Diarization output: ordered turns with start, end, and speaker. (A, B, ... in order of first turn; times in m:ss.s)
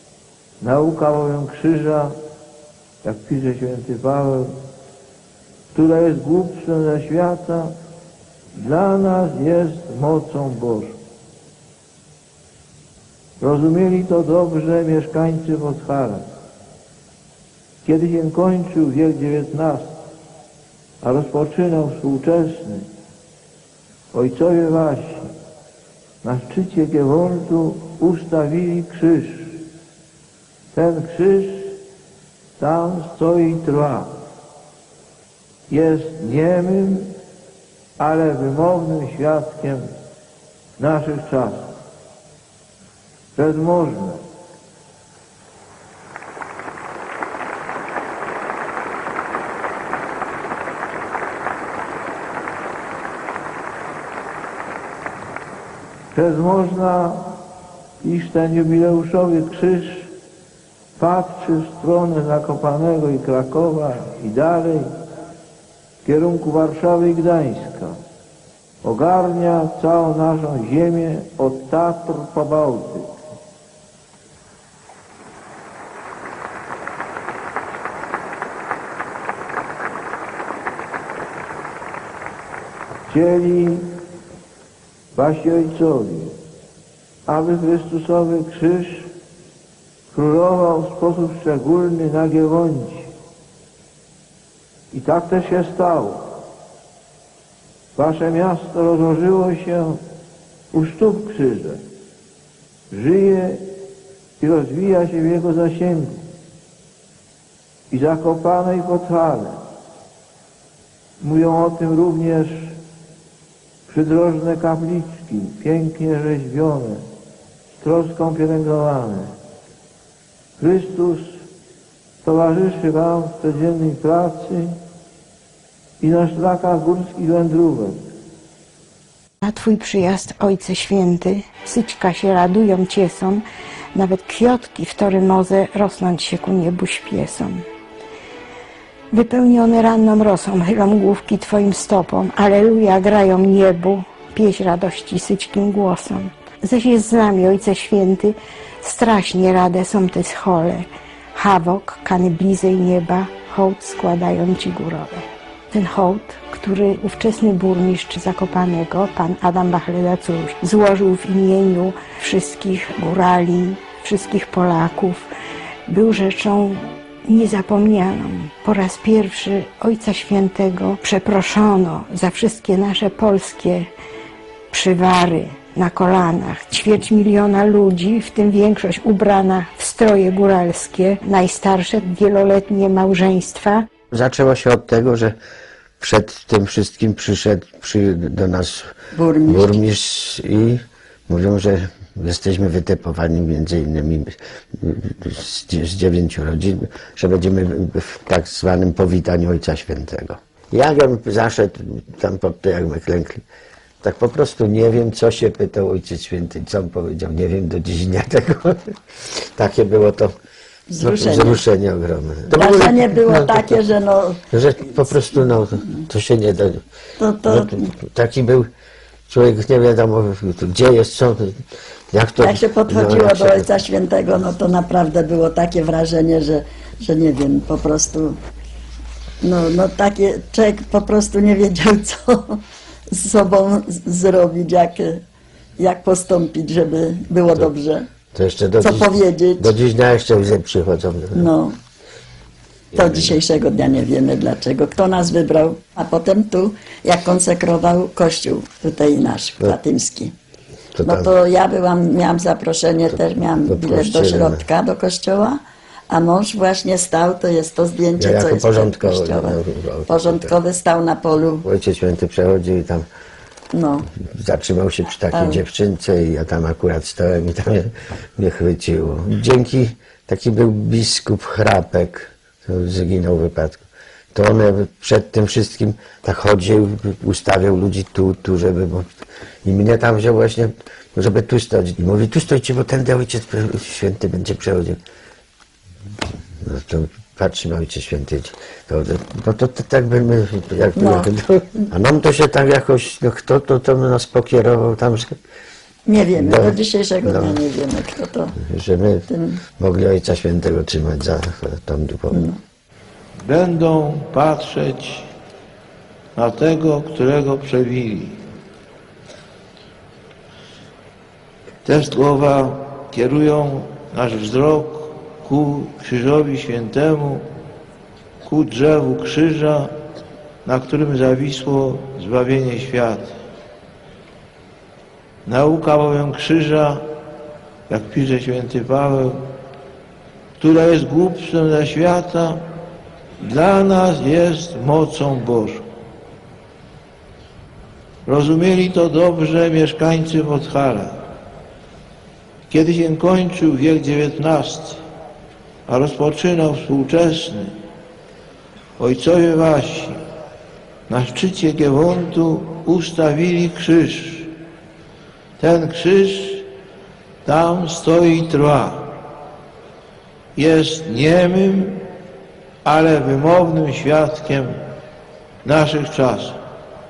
0:00.6-0:02.2 A
0:03.0-0:04.5 A
0:05.7-0:07.7 A
0:08.5-0:11.0 A
0:13.4-0:16.3 A
0:17.8-0:20.0 A
0:21.0-0:22.9 A
0:24.1-0:25.3 A
0:26.2-0:29.6 A
0:30.7-0:31.8 A
0:32.6-0:34.2 A
0:35.7-0:37.1 A
0:38.0-0:39.9 A
0:40.8-0:41.7 A
0:43.3-0:44.2 A
0:56.1-0:57.4 A
0:58.0-1:00.1 A
1:01.0-1:04.9 A
1:06.0-1:08.0 A
1:08.8-1:13.1 A
1:23.1-1:23.9 A
1:25.1-1:26.4 A
1:27.2-1:29.1 A
1:30.1-1:33.1 A
1:34.9-1:36.3 A
1:37.9-1:40.0 A
1:40.7-1:41.8 A
1:42.9-1:43.7 A
1:44.4-1:46.2 A
1:47.9-1:49.6 A
1:51.2-1:52.8 A
1:53.9-1:57.0 A
1:57.8-1:59.3 A
2:00.6-2:01.4 A
2:02.2-2:04.8 A
2:06.0-2:08.1 A
2:09.4-2:13.4 B
2:13.9-2:17.6 B
2:19.1-2:45.3 B
2:45.9-2:53.9 B
2:54.7-3:03.8 B
3:04.1-3:05.4 C
3:06.0-3:08.9 C
3:09.1-3:09.8 D
3:09.4-3:23.4 C
3:24.0-3:30.3 C
3:30.9-3:31.6 D
3:31.0-3:33.7 C
3:32.5-3:34.5 D
3:34.5-3:36.8 C
3:37.2-3:37.9 D
3:37.4-3:38.7 C
3:39.3-3:41.6 C
3:42.1-3:43.7 C
3:42.4-3:48.4 D
3:49.4-3:55.2 D
3:55.8-3:58.1 D
3:58.3-4:01.5 C
3:58.8-3:59.7 D
4:01.3-4:01.8 D
4:02.9-4:03.3 C
4:02.9-4:10.3 D
4:10.9-4:11.3 C
4:11.0-4:21.6 D
4:13.6-4:14.6 C
4:18.2-4:20.5 C
4:21.6-4:23.0 C
4:23.7-4:24.1 D
4:24.2-4:39.1 C
4:25.3-4:25.6 D
4:39.6-4:45.0 C
4:46.6-4:55.4 C
4:51.0-4:51.3 D
4:56.0-4:58.6 D
4:56.4-4:57.6 C
4:58.6-5:02.4 C
4:59.3-4:59.6 D
5:02.3-5:02.6 D
5:03.4-5:05.3 A
5:06.3-5:08.4 A
5:11.8-5:17.4 A
5:18.4-5:19.9 A
5:20.6-5:23.4 A
5:25.4-5:27.1 A
5:27.9-5:29.4 A
5:30.6-5:32.6 A
5:33.4-5:35.8 A
5:38.2-5:41.2 A
5:42.7-5:45.0 A
5:45.8-5:47.7 A
5:49.0-5:50.2 A
5:51.1-5:54.5 A
5:55.6-5:56.7 A
5:57.4-5:59.2 A
6:00.6-6:02.0 A
6:02.8-6:04.8 A
6:05.6-6:06.6 A